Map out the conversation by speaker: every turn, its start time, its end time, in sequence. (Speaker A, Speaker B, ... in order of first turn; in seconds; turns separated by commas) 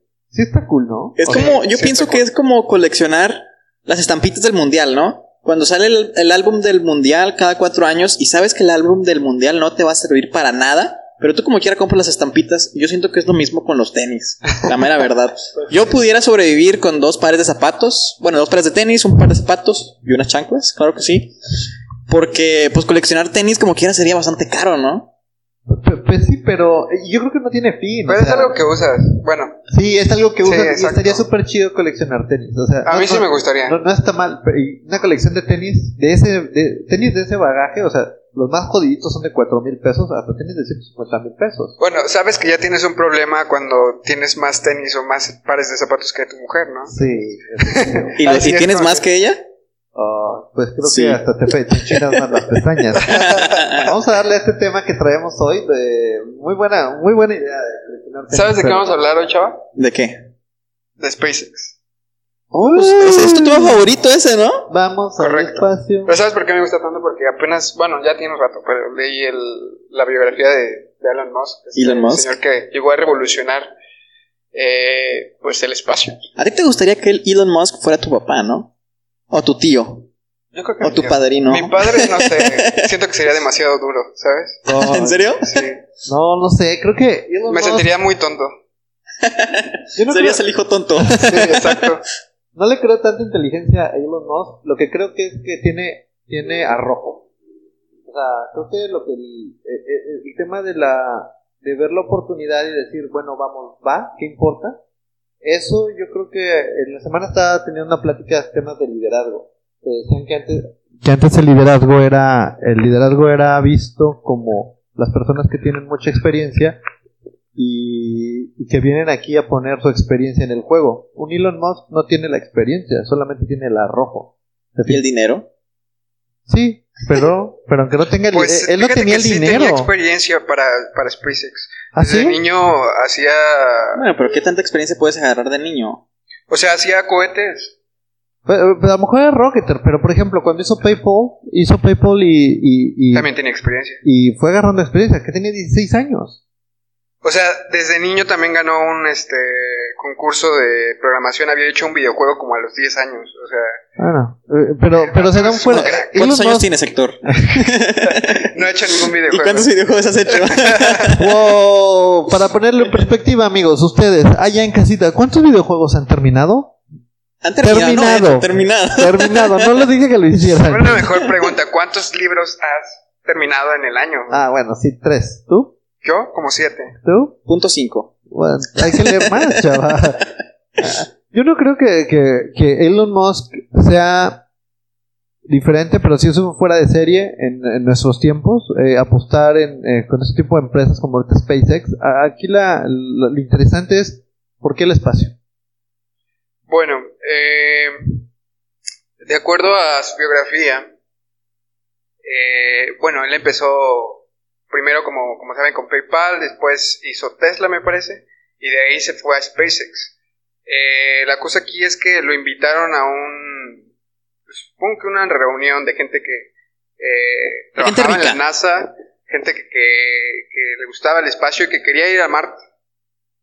Speaker A: 0.3-1.5, Speaker B: 1.1-21.3, Speaker C: 1.3-2.2, Speaker B: 22.1-25.1, Speaker A: 25.7-28.6, Speaker C: 28.1-29.6, Speaker A: 29.7-41.8, Speaker C: 30.4-31.2, Speaker C: 32.8-33.8, Speaker C: 41.8-46.9, Speaker A: 46.9-48.1, Speaker C: 47.7-49.0, Speaker B: 48.2-49.4, Speaker A: 49.9-58.9, Speaker B: 50.8-51.2, Speaker B: 53.0-53.8, Speaker C: 53.1-53.5, Speaker C: 58.3-59.6, Speaker B: 59.8-60.1, Speaker C: 61.0-61.7, Speaker A: 62.5-64.0, Speaker B: 62.7-64.7, Speaker A: 64.7-66.2, Speaker C: 65.2-73.7, Speaker B: 71.7-72.3, Speaker C: 74.5-76.2, Speaker B: 76.3-78.7, Speaker B: 79.3-80.1, Speaker C: 80.5-84.6, Speaker B: 80.8-82.9, Speaker A: 84.7-85.2, Speaker B: 84.7-85.7, Speaker C: 85.4-85.8, Speaker A: 86.1-87.9, Speaker C: 87.5-88.5, Speaker B: 89.2-91.8, Speaker A: 90.0-90.5, Speaker C: 91.2-92.0, Speaker A: 92.5-97.3, Speaker A: 98.1-104.8, Speaker A: 105.4-116.8, Speaker A: 117.5-125.0, Speaker B: 124.8-125.5, Speaker A: 126.5-129.9, Speaker C: 128.3-134.0, Speaker A: 131.9-132.4, Speaker B: 133.9-136.0, Speaker C: 136.5-137.7, Speaker A: 138.4-143.3, Speaker C: 143.1-144.0, Speaker A: 144.0-146.4, Speaker C: 147.2-153.8, Speaker A: 154.0-156.7, Speaker C: 154.9-156.2, Speaker B: 155.7-158.5, Speaker A: 157.2-157.6, Speaker C: 158.1-159.8, Speaker B: 159.1-161.3, Speaker C: 160.4-160.8, Speaker A: 161.2-166.8, Speaker B: 167.4-169.8, Speaker A: 167.6-171.1, Speaker C: 170.6-174.4, Speaker A: 174.3-175.7, Speaker C: 176.0-176.9, Speaker A: 177.0-177.3, Speaker B: 177.4-178.1, Speaker A: 178.3-180.3, Speaker B: 178.9-179.3, Speaker A: 180.8-184.4, Speaker A: 185.5-195.3, Speaker C: 196.7-197.9, Speaker C: 199.2-200.9, Speaker C: 202.2-210.1, Speaker C: 210.7-213.8, Speaker C: 214.5-222.6, Speaker B: 217.8-218.4